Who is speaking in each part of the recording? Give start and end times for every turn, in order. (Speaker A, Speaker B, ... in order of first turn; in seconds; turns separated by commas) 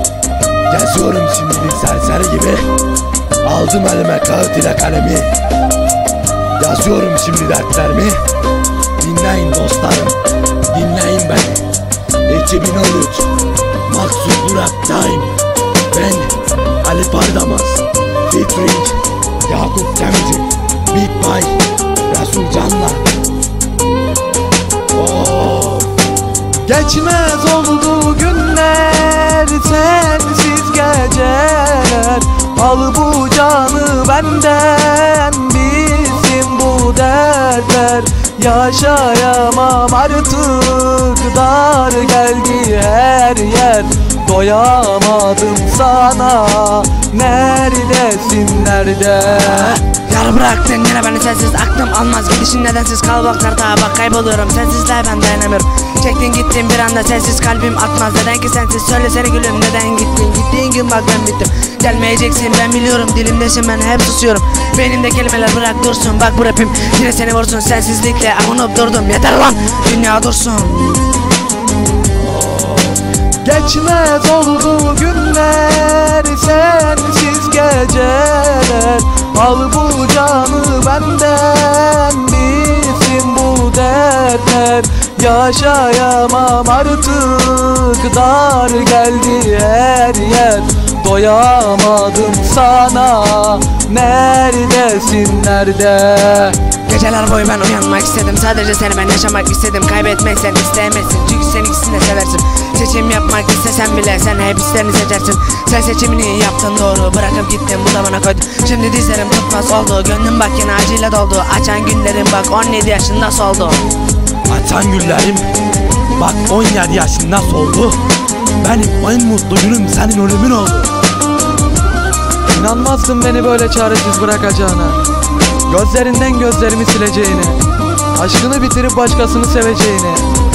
Speaker A: 0.7-2.7, Speaker A: 3.4-5.3, Speaker A: 6.6-8.2, Speaker A: 9.0-10.2, Speaker A: 10.7-11.7, Speaker A: 12.3-13.3, Speaker A: 13.9-15.3, Speaker A: 15.9-16.3, Speaker A: 16.8-23.0, Speaker A: 24.9-25.9, Speaker B: 26.6-49.8, Speaker C: 49.7-71.0, Speaker B: 73.4-96.6, Speaker C: 96.8-113.8, Speaker A: 114.5-115.5, Speaker A: 116.2-118.0, Speaker A: 118.6-120.9, Speaker B: 122.5-125.0, Speaker B: 125.7-127.6, Speaker B: 128.1-130.2